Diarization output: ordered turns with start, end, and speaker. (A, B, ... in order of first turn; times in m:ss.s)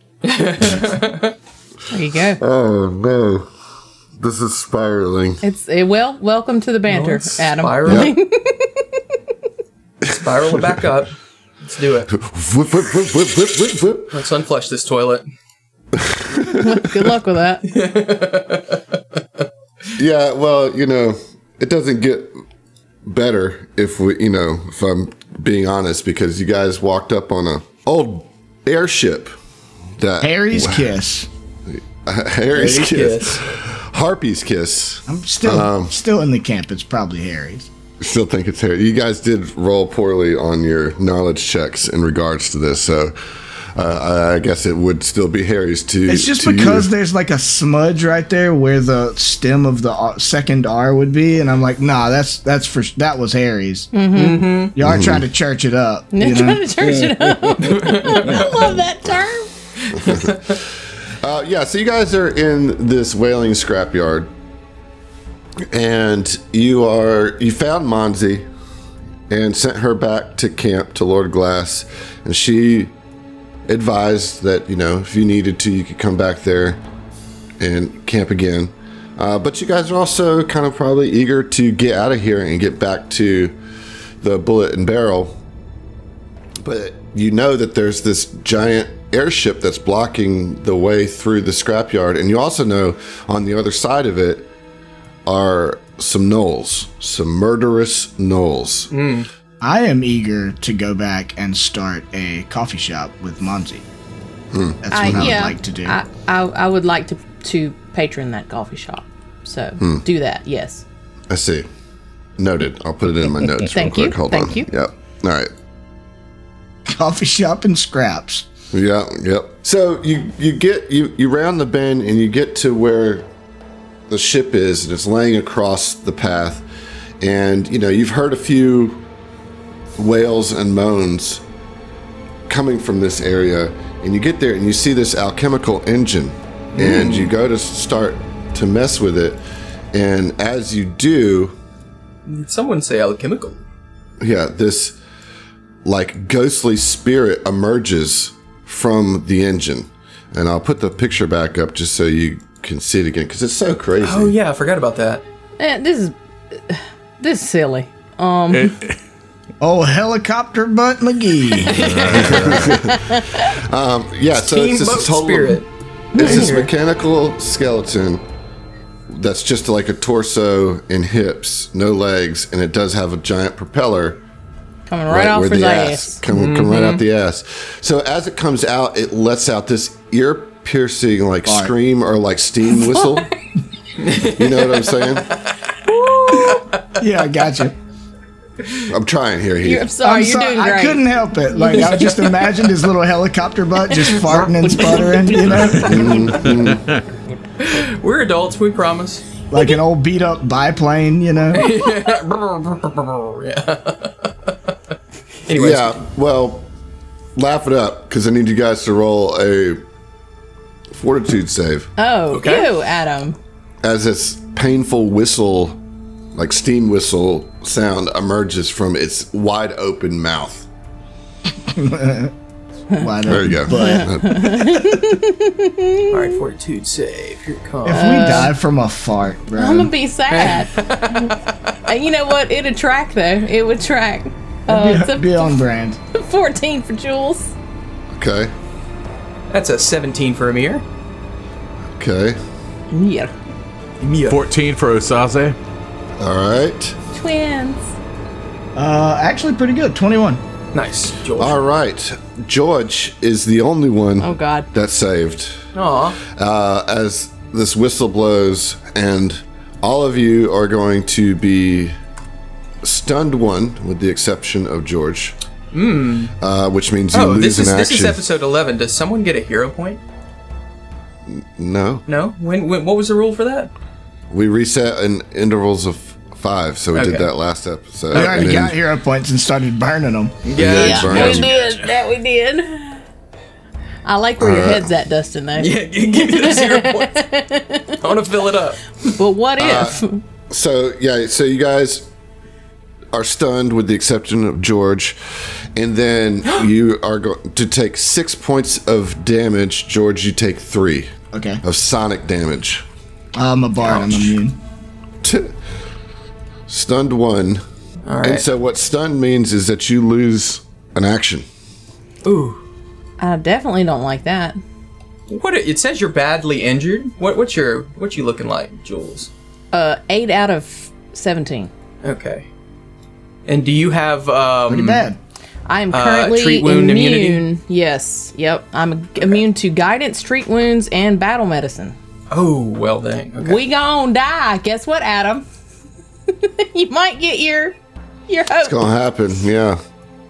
0:00.2-0:01.3 A
0:01.9-0:02.4 B
0:02.4-0:03.5 C
0:04.2-0:05.4 C
0:05.4-0:08.8 B
0:06.9-0:08.1 A
0:07.8-0:08.1 C
0:10.0-0:12.1 A
0:12.1-0:14.2 C
0:14.1-0:15.2 A
0:15.9-0:17.1 C
0:16.5-0:17.6 B
0:17.6-0:18.8 A
0:20.0-0:22.4 C
0:23.0-0:29.3 C
0:30.0-0:30.9 C
0:30.2-0:31.3 D
0:31.7-0:35.9 C
0:32.5-0:33.4 A
0:35.1-0:37.7 D
0:38.0-0:46.9 C
0:46.1-0:53.9 D
0:53.9-0:54.6 B
0:54.1-0:54.7 A
0:54.7-0:56.7 D
0:54.8-0:55.2 C
0:56.1-0:59.5 B
0:57.6-0:58.6 A
0:59.9-1:00.6 A
1:00.0-1:00.5 C
1:01.2-1:04.3 C
1:05.7-1:08.5 C
1:09.3-1:12.9 C
1:13.7-1:16.8 C
1:17.6-1:23.5 C
1:24.2-1:25.4 C
1:26.6-1:34.5 C
1:35.2-1:38.9 C
1:38.9-1:39.3 A
1:39.6-1:43.8 D
1:44.5-1:45.3 C
1:44.8-1:46.0 D
1:44.9-1:50.8 B
1:51.3-1:51.7 C
1:52.4-1:55.5 C
1:53.7-1:54.7 B
1:56.9-1:58.5 D
1:58.7-2:03.3 C
2:04.1-2:06.6 C
2:07.2-2:09.0 C
2:10.0-2:11.4 C
2:12.5-2:19.4 C
2:16.7-2:17.3 A
2:19.9-2:21.6 C
2:22.2-2:23.6 A
2:24.2-2:25.0 C
2:25.8-2:34.3 C
2:34.0-2:35.2 A
2:35.6-2:38.8 B
2:38.5-2:38.9 E
2:39.6-2:41.9 D
2:41.6-2:42.5 A
2:41.8-2:42.8 E
2:42.1-2:45.6 C
2:42.7-2:43.4 B
2:44.4-2:46.7 A
2:46.1-2:46.6 B
2:46.2-2:48.2 C
2:49.1-2:54.2 C
2:54.9-2:56.2 B
2:55.1-3:03.3 C
2:56.3-2:57.0 A
3:01.4-3:01.7 D
3:02.8-3:03.2 B
3:04.0-3:06.8 A
3:04.2-3:05.3 C
3:05.9-3:06.6 B
3:07.0-3:07.8 D
3:08.9-3:09.9 C
3:09.6-3:12.3 B
3:10.0-3:16.2 D
3:11.8-3:12.1 A
3:13.9-3:16.5 B
3:15.8-3:16.8 C
3:16.4-3:17.0 E
3:17.6-3:19.2 A
3:19.5-3:21.7 D
3:21.5-3:24.5 A
3:25.4-3:26.0 A
3:25.5-3:26.7 C
3:27.4-3:29.8 C
3:30.9-3:31.9 C
3:32.0-3:33.4 B
3:32.3-3:32.7 A
3:33.8-3:35.8 C
3:36.3-3:40.7 C
3:41.6-3:42.3 D
3:43.0-3:44.4 D
3:43.2-3:44.9 C
3:43.7-3:46.4 B
3:46.1-3:48.5 A
3:47.8-3:49.9 D
3:47.9-3:48.5 B
3:49.6-3:51.4 B
3:50.3-3:51.4 A
3:51.9-3:57.5 B
3:54.7-3:56.0 D
3:58.1-3:58.5 C
3:59.5-4:00.8 A
4:01.9-4:02.4 C
4:02.9-4:03.3 B
4:04.0-4:04.4 A
4:04.3-4:05.6 E
4:06.2-4:07.0 C
4:07.1-4:07.9 B
4:08.8-4:10.4 D
4:10.7-4:11.6 A
4:11.4-4:15.6 C
4:14.2-4:14.7 B
4:15.7-4:16.2 A
4:16.2-4:21.9 C
4:22.8-4:25.4 C
4:25.7-4:26.3 A
4:26.4-4:28.2 C
4:27.1-4:30.0 A
4:31.3-4:32.0 C
4:32.1-4:33.7 A
4:34.3-4:38.8 C
4:36.9-4:37.3 A
4:38.1-4:40.5 D
4:38.1-4:38.5 A
4:40.4-4:41.8 A
4:40.6-4:41.5 C
4:40.7-4:43.0 B
4:44.0-4:48.2 B
4:44.4-4:44.9 C
4:45.6-4:47.2 A
4:48.0-4:48.8 A
4:49.0-4:50.2 B
4:49.6-4:52.1 C
4:53.1-4:55.2 C
4:55.8-5:02.8 C
5:01.3-5:01.6 D
5:03.3-5:04.6 D
5:03.8-5:04.3 A
5:05.2-5:05.5 C
5:06.7-5:07.6 C
5:08.0-5:08.4 A
5:08.2-5:11.5 C
5:12.2-5:12.6 A
5:13.2-5:14.6 B
5:15.3-5:19.3 A
5:19.7-5:21.7 B
5:22.0-5:22.5 A
5:23.4-5:25.1 A
5:24.7-5:25.2 D
5:25.7-5:31.9 B
5:25.9-5:27.4 A
5:32.3-5:33.6 A
5:33.4-5:35.4 B
5:36.3-5:37.8 B
5:38.3-5:38.9 B
5:38.6-5:39.8 C